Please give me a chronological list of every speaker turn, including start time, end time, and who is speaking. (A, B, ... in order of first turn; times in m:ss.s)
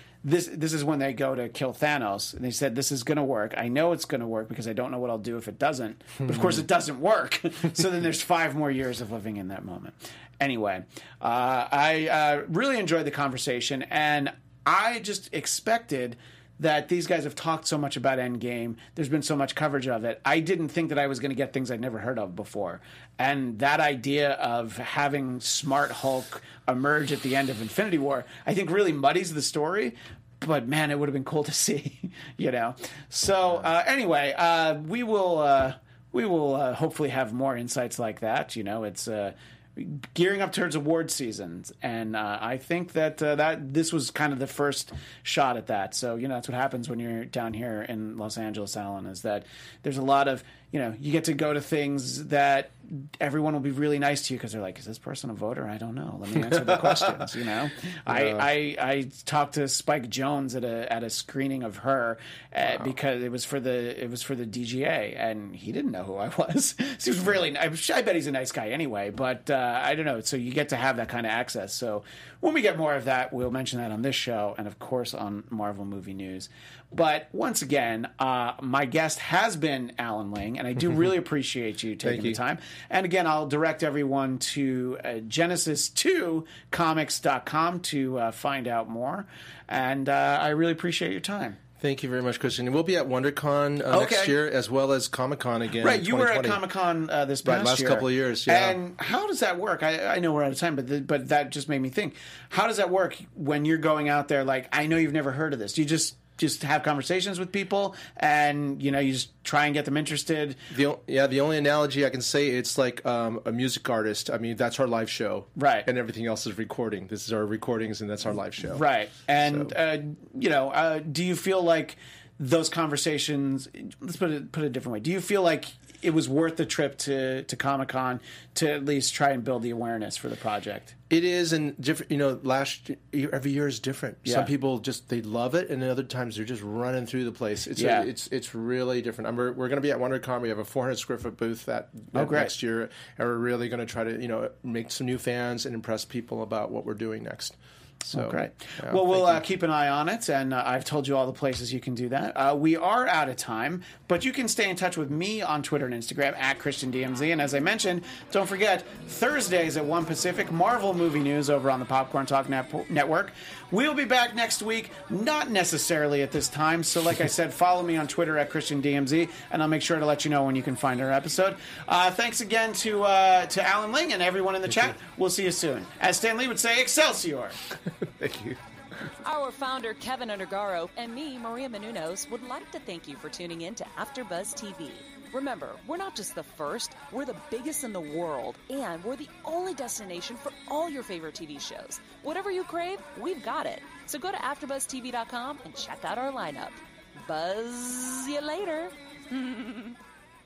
0:00.2-1:31.6 A
0:58.1-0:58.4 B
1:22.0-1:22.4 B
1:31.8-1:36.6 B
1:33.9-1:34.3 A
1:35.8-1:50.6 A
1:37.4-1:38.8 B
1:50.7-1:58.8 B
1:55.6-1:55.9 A
1:58.7-2:11.0 A
1:59.4-1:59.7 B
2:11.1-2:27.6 B
2:14.2-2:14.5 A
2:17.8-2:18.1 A
2:22.1-2:22.5 A
2:28.1-2:57.6 A
2:28.1-2:29.4 B
2:58.0-2:58.6 B
2:59.2-3:20.0 C